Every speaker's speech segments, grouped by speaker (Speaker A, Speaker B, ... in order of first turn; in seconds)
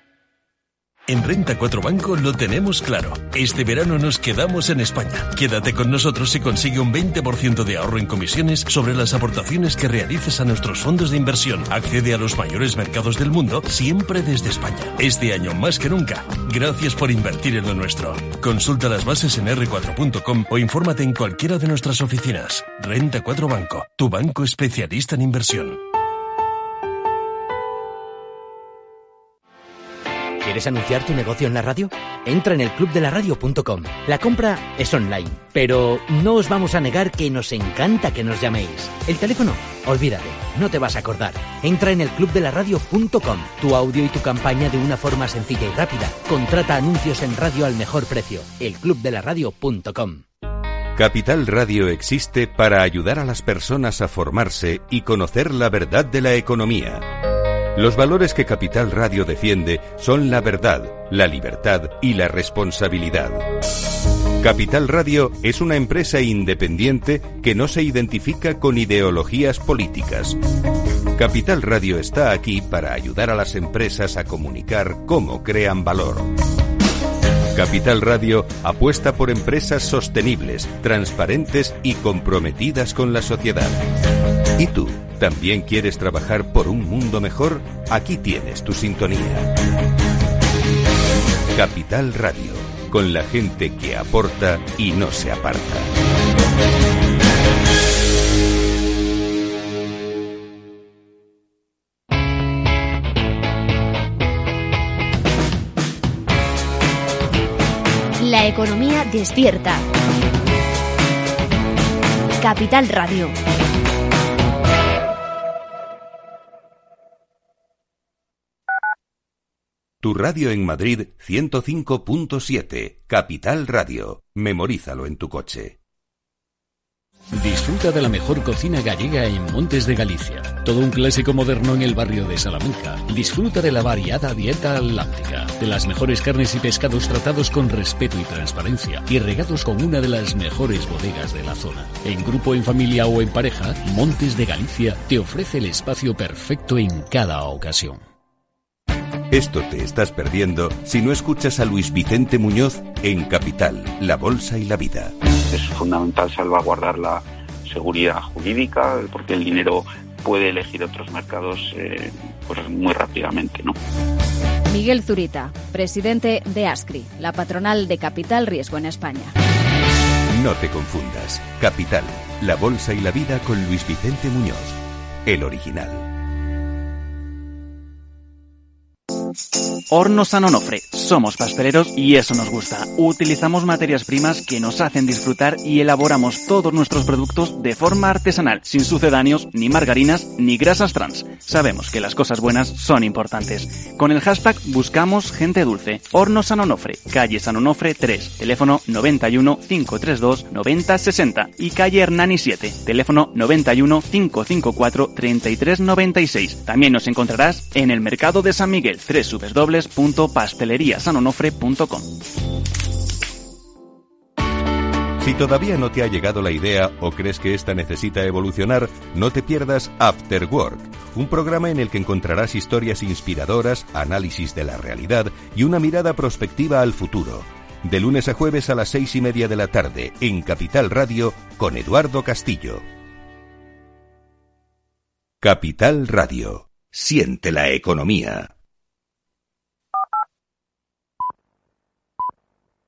Speaker A: 1.1-25.8
Speaker B: 30.4-50.2
Speaker C: 50.9-57.1, 57.7-63.5, 64.4-70.4, 71.1-76.4, 77.5-83.8, 84.5-89.6, 91.5-95.9, 120.0-125.8, 149.3-155.1, 170.3-176.1, 215.2-232.8, 235.4-238.5
Speaker D: 108.2-109.8, 112.4-113.3
Speaker E: 127.3-148.0
Speaker F: 155.5-163.7
Speaker G: 164.7-169.3
Speaker H: 179.9-212.1